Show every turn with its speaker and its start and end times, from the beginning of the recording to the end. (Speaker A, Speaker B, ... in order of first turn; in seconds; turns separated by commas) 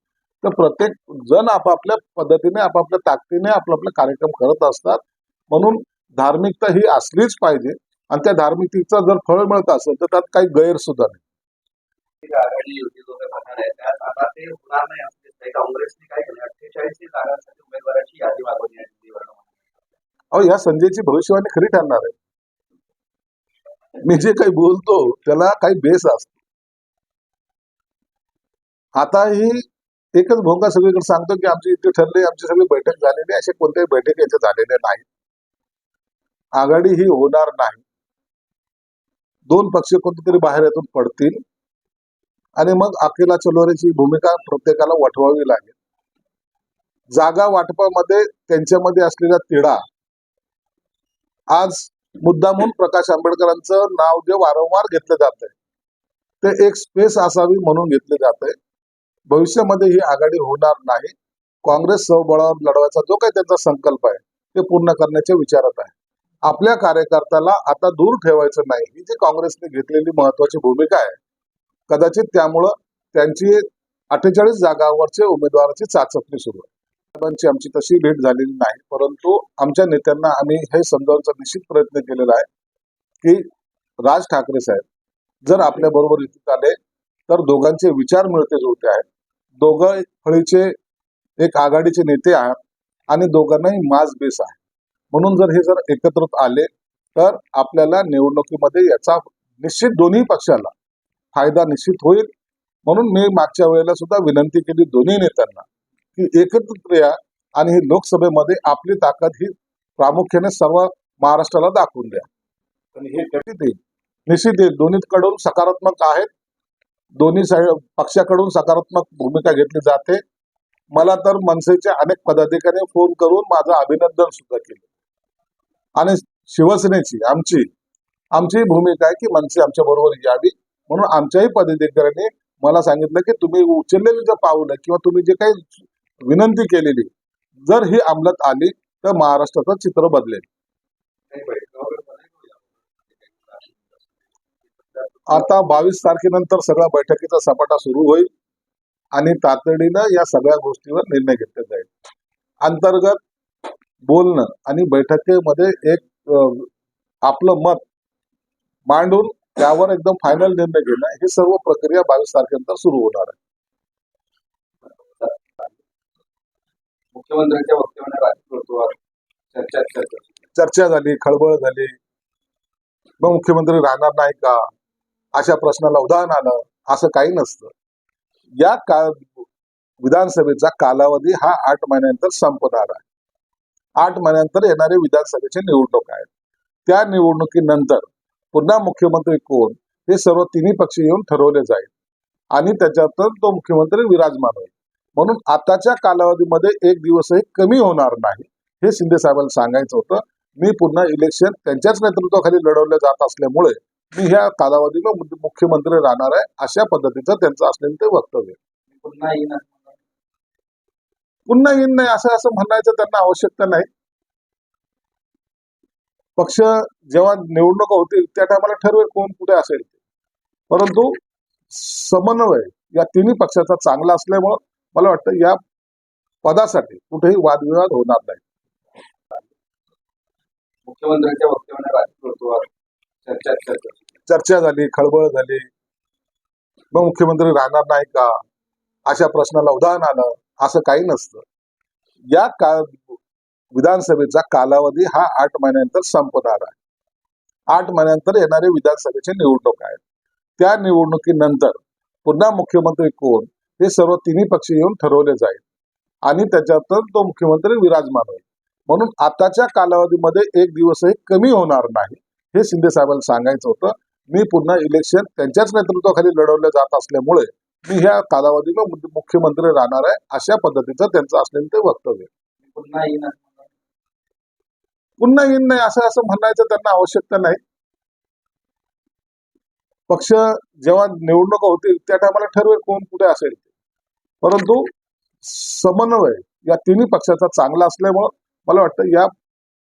Speaker A: 0.4-11.2, Speaker B: 12.2-19.6, Speaker A: 20.3-22.1, Speaker A: 24.0-26.4, Speaker A: 29.0-29.6, Speaker A: 30.1-35.0, Speaker A: 36.5-37.8, Speaker A: 39.5-41.4, Speaker A: 42.6-45.7, Speaker A: 47.1-49.8, Speaker A: 51.5-55.5, Speaker A: 56.4-58.5, Speaker A: 59.3-65.9, Speaker A: 66.5-71.2, Speaker A: 71.9-82.5, Speaker A: 84.0-84.8, Speaker A: 85.5-86.8, Speaker A: 87.3-89.0, Speaker A: 89.6-90.7, Speaker A: 91.4-94.6, Speaker A: 95.1-100.7, Speaker A: 101.3-102.3, Speaker A: 102.8-112.3, Speaker B: 113.0-113.2, Speaker A: 113.3-116.3, Speaker A: 117.2-120.2, Speaker A: 120.9-124.8, Speaker A: 126.0-127.7, Speaker A: 128.3-137.1, Speaker A: 137.7-140.4, Speaker B: 141.3-144.1, Speaker B: 144.7-145.8, Speaker A: 145.3-148.3, Speaker A: 149.1-151.9, Speaker A: 152.6-153.2, Speaker A: 154.1-156.7, Speaker A: 157.2-157.8, Speaker A: 158.9-163.4, Speaker B: 164.8-165.7, Speaker B: 167.1-168.9, Speaker B: 169.5-170.3, Speaker A: 170.5-171.9, Speaker A: 173.2-174.6, Speaker A: 175.3-177.7, Speaker A: 178.6-179.4, Speaker A: 180.0-183.0, Speaker A: 184.0-186.3, Speaker A: 186.9-191.9, Speaker A: 192.5-208.6, Speaker B: 208.9-210.0, Speaker A: 211.5-213.9, Speaker A: 216.4-219.9, Speaker A: 220.7-221.1, Speaker A: 221.7-225.6, Speaker A: 226.4-228.4, Speaker B: 230.8-232.7, Speaker B: 233.2-234.0, Speaker A: 234.3-235.7, Speaker A: 236.9-238.4, Speaker A: 239.1-241.4, Speaker A: 242.3-243.2, Speaker A: 243.7-246.8, Speaker A: 247.7-250.0, Speaker A: 250.6-255.6, Speaker A: 256.2-272.3, Speaker B: 272.6-273.7, Speaker A: 275.2-277.6, Speaker A: 280.1-283.7, Speaker A: 284.4-284.9, Speaker A: 285.4-289.3